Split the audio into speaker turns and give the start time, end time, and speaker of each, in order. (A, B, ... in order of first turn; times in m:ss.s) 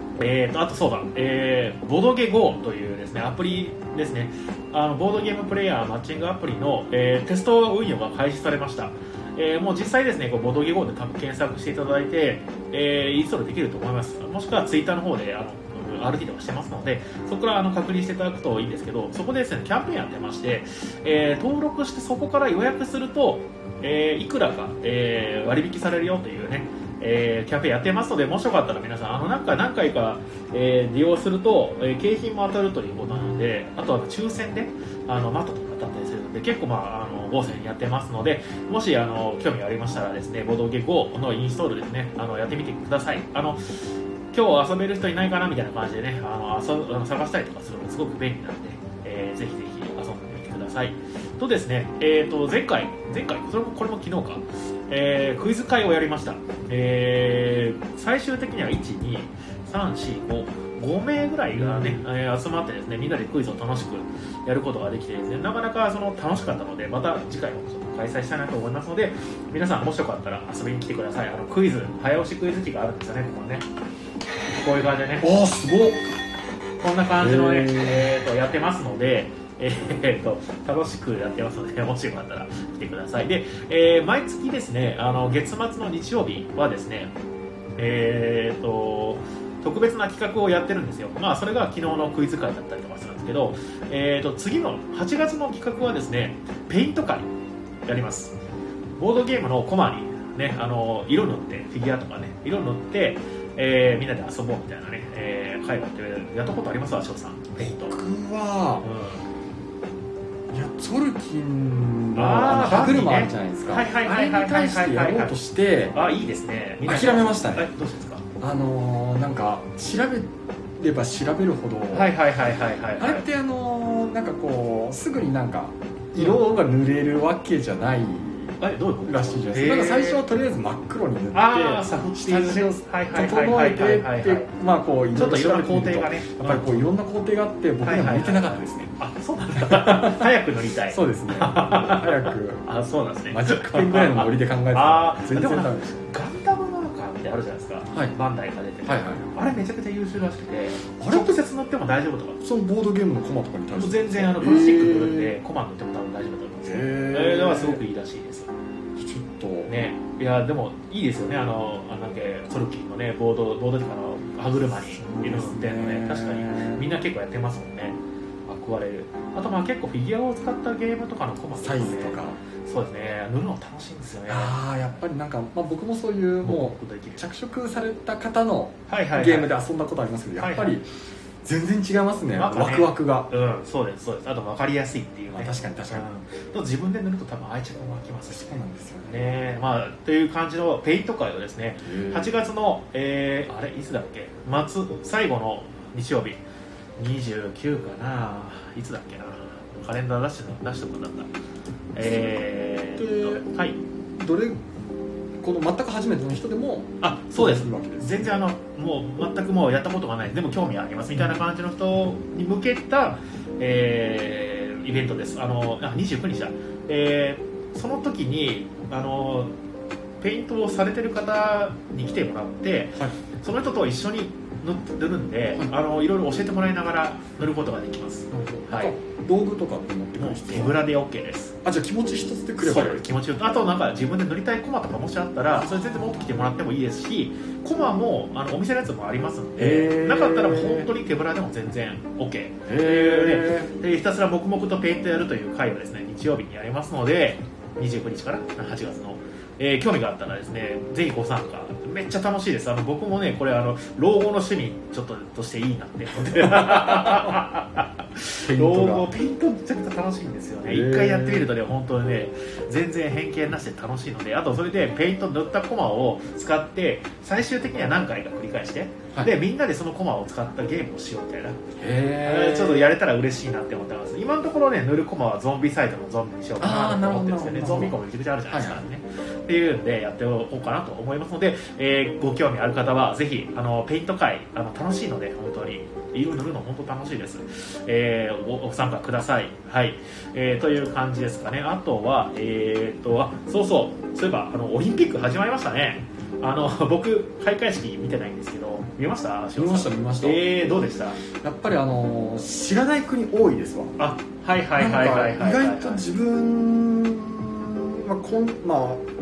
0:00.2-1:13.6 A
1:01.5-1:02.0 B
1:14.6-1:15.3 A
1:15.2-1:16.1 B
1:16.8-1:27.1 A
1:17.2-1:18.1 B
1:27.8-1:37.3 A
1:37.9-1:38.4 A
1:39.0-1:48.0 A
1:47.9-1:48.8 B
1:48.8-1:49.2 A
1:50.5-1:56.0 B
1:52.1-1:55.3 A
1:55.9-1:58.2 A
1:56.8-1:57.7 B
1:58.4-2:02.1 B
2:01.9-2:03.2 A
2:03.0-2:18.9 B
2:08.6-2:10.2 A
2:11.3-2:14.5 A
2:15.1-2:16.8 A
2:17.8-2:32.4 A
2:19.5-2:22.6 B
2:23.3-2:26.1 B
2:28.8-2:29.3 B
2:31.0-2:31.4 B
2:32.4-2:35.4 B
2:33.8-2:38.5 A
2:36.6-2:37.8 B
2:39.0-2:39.7 B
2:39.6-2:54.6 A
2:44.7-2:46.9 B
2:51.6-2:52.4 B
2:54.3-3:00.8 B
2:56.4-2:57.2 A
2:58.9-2:59.5 A
3:00.4-3:00.8 A
3:01.4-3:03.3 B
3:02.4-3:16.4 A
3:05.3-3:06.1 B
3:08.3-3:09.3 B
3:11.8-3:12.4 B
3:17.0-3:21.3 A
3:21.9-3:23.8 A
3:22.0-3:22.4 B
3:23.0-3:23.5 B
3:24.2-3:24.6 B
3:25.4-3:28.2 B
3:27.0-3:39.5 A
3:40.2-3:48.9 A
3:48.3-3:50.8 B
3:50.2-3:51.5 A
3:51.6-3:53.1 B
3:52.6-4:31.6 A
3:55.5-3:56.3 B
3:59.6-4:00.9 B
4:02.6-4:03.7 B
4:16.4-4:17.4 B
4:18.4-4:19.1 B
4:20.6-4:21.5 B
4:31.8-4:32.9 B
4:32.2-5:01.2 A
4:36.6-4:38.8 B
4:59.6-5:04.0 B
5:04.0-5:06.0 A
5:04.8-5:09.0 B